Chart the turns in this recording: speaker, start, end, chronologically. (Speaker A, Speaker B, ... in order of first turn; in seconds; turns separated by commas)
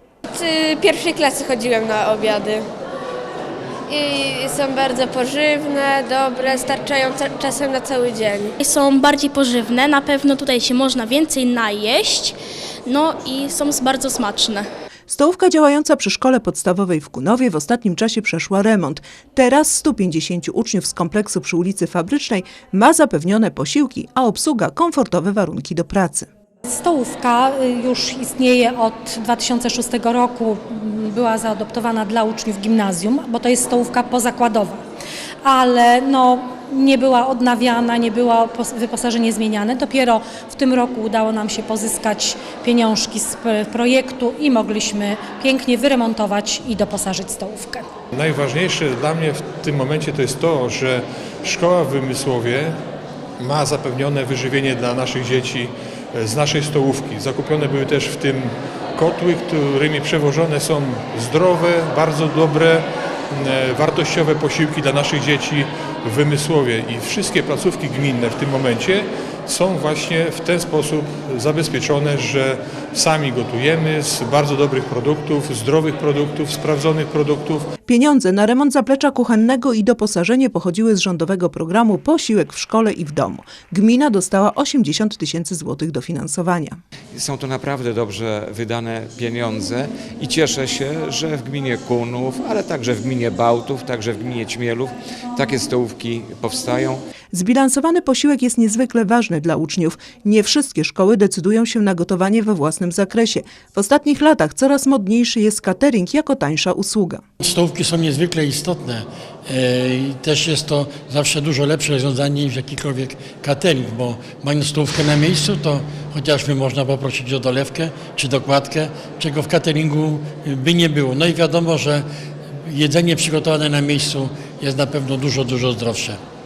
Speaker A: 0.3-2.6, Speaker A: 3.9-8.5, Speaker B: 8.6-12.4, Speaker B: 12.9-14.6, Speaker C: 15.1-26.3, Speaker D: 26.7-34.8, Speaker D: 35.4-47.8, Speaker E: 48.1-52.7, Speaker E: 53.4-77.7, Speaker C: 77.9-86.8, Speaker F: 87.1-97.0, Speaker C: 97.3-107.2, Speaker G: 107.4-122.0, Speaker G: 122.7-126.2